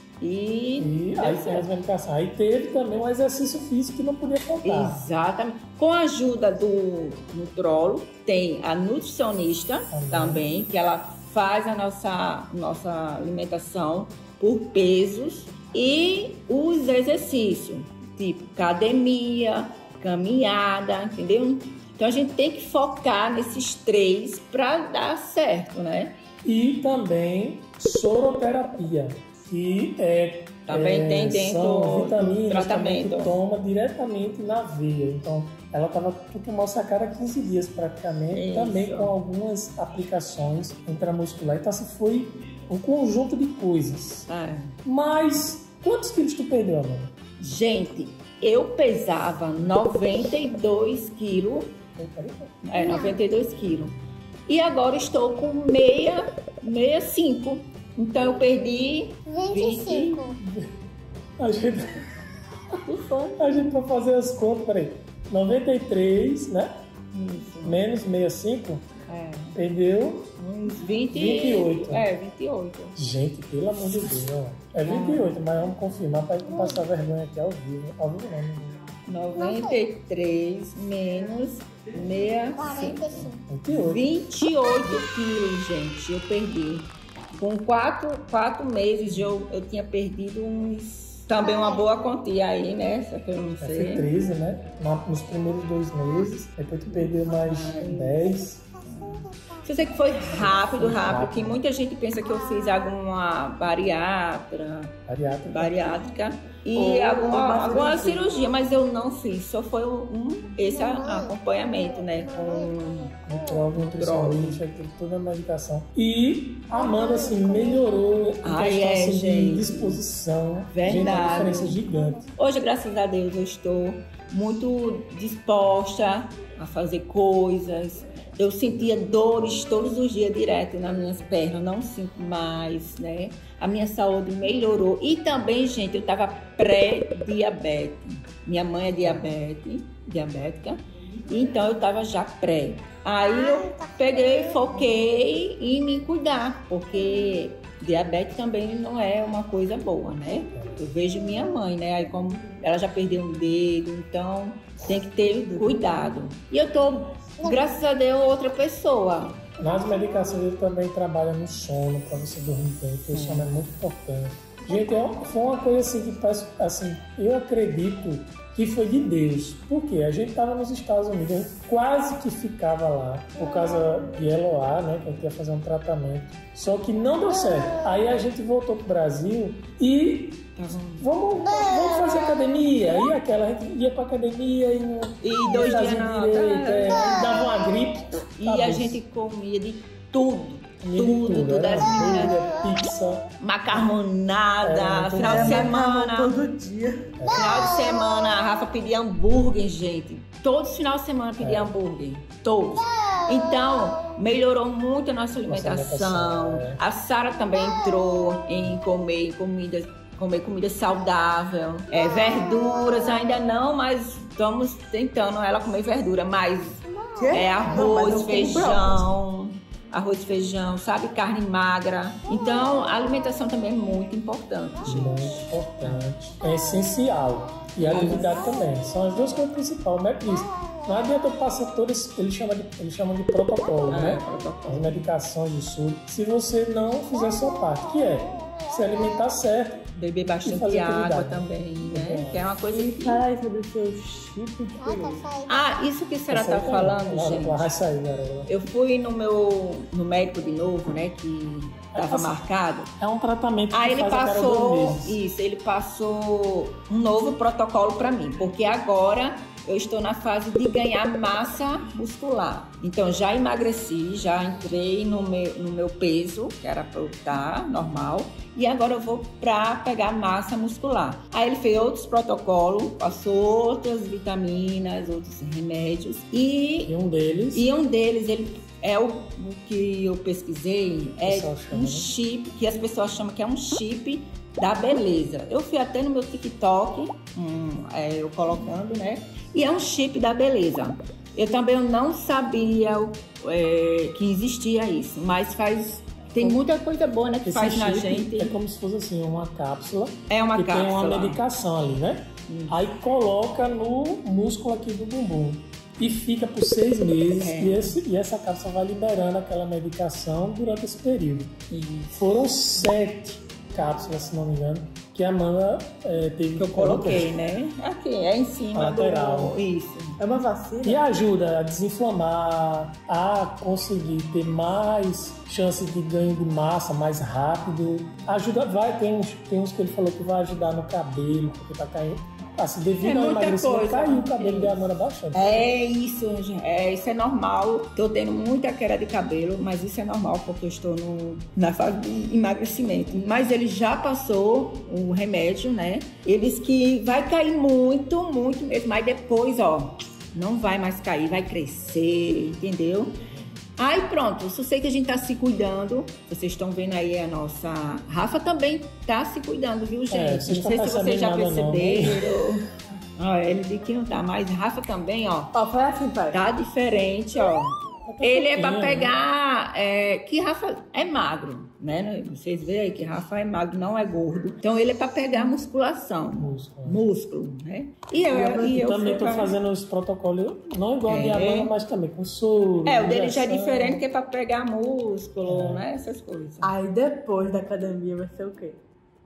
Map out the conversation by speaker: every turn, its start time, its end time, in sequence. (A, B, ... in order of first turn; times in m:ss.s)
0:00.2-0:01.6 A
0:00.8-0:05.0 B
0:04.6-0:26.2 A
0:09.9-0:10.5 B
0:26.4-0:44.3 B
0:30.7-0:33.4 A
0:38.3-0:39.2 A
0:44.3-0:44.8 A
0:44.8-0:47.1 B
0:47.4-0:51.8 A
0:52.0-0:52.6 B
0:52.6-0:53.9 A
0:52.8-0:53.2 C
0:54.5-1:00.2 A
0:59.3-1:00.4 C
1:00.4-1:00.7 B
1:01.4-1:02.1 B
1:02.7-1:03.5 A
1:03.4-1:06.8 B
1:07.1-1:07.8 A
1:07.6-1:08.9 B
1:09.1-1:09.6 A
1:09.6-1:10.3 B
1:10.4-1:13.0 A
1:11.1-1:12.1 B
1:13.0-1:18.9 B
1:14.8-1:15.4 A
1:16.4-1:16.8 C
1:19.1-1:34.1 A
1:19.4-1:19.9 C
1:22.6-1:23.4 C
1:23.5-1:24.1 B
1:31.4-1:32.1 C
1:33.6-1:38.6 B
1:37.3-1:38.4 A
1:38.9-1:40.0 C
1:39.6-1:45.0 A
1:40.3-1:41.6 B
1:42.3-1:42.8 C
1:45.1-1:45.7 B
1:45.5-1:53.1 A
1:46.8-1:48.4 D
1:50.6-1:53.7 C
1:53.3-2:02.2 B
1:53.8-1:54.6 A
1:56.7-1:58.0 C
1:58.4-2:00.0 A
2:00.7-2:01.8 A
2:00.8-2:02.2 C
2:02.4-2:39.4 A
2:19.0-2:19.3 B
2:23.2-2:24.8 C
2:30.6-2:30.8 B
2:35.5-2:36.0 D
2:39.6-3:09.0 B
2:43.1-2:43.5 A
3:00.6-3:01.1 A
3:01.7-3:02.3 C
3:05.2-3:07.2 A
3:08.4-3:12.4 A
3:10.8-3:13.9 B
3:13.4-3:16.5 A
3:14.6-3:15.8 B
3:15.2-3:17.2 D
3:17.2-3:17.9 B
3:17.3-3:46.0 A
3:17.3-3:18.4 C
3:21.4-3:21.8 B
3:22.8-3:24.2 C
3:25.4-3:26.8 B
3:27.5-3:28.5 C
3:32.0-3:33.3 C
3:36.9-3:37.6 C
3:37.2-3:39.0 D
3:44.8-3:59.8 B
3:47.8-3:48.5 D
3:47.8-3:48.4 A
3:48.4-3:49.0 C
3:50.2-3:51.3 C
3:53.9-3:55.0 A
3:57.1-3:59.3 C
3:59.9-4:03.2 A
4:00.4-4:02.6 B
4:02.7-4:05.3 D
4:04.8-4:05.8 C
4:05.5-4:07.8 A
4:06.3-4:08.5 B
4:08.5-4:12.9 A
4:11.9-4:12.4 B
4:13.0-4:15.2 B
4:13.7-4:36.9 A
4:36.9-4:37.7 B
4:37.5-4:58.5 A
4:41.2-4:42.1 B
4:56.4-4:56.7 B
4:57.4-5:11.6 B
5:00.3-5:01.4 A
5:02.5-5:02.8 A
5:07.3-5:08.0 A
5:11.7-5:12.3 A
5:12.2-5:17.4 B
5:16.6-5:20.2 A
5:18.7-5:19.6 B
5:20.2-5:21.1 D
5:20.8-5:35.7 B
5:33.0-5:53.2 A
5:53.8-6:02.6 A
6:00.1-6:02.4 B
6:03.2-6:05.5 A
6:05.5-6:06.4 D
6:06.3-6:19.6 A
6:08.0-6:09.2 B
6:16.4-6:17.0 B
6:18.3-6:24.0 B
6:18.3-6:19.0 D
6:21.1-6:21.7 A
6:22.9-6:26.7 A
6:25.5-6:25.9 B
6:26.6-6:28.8 D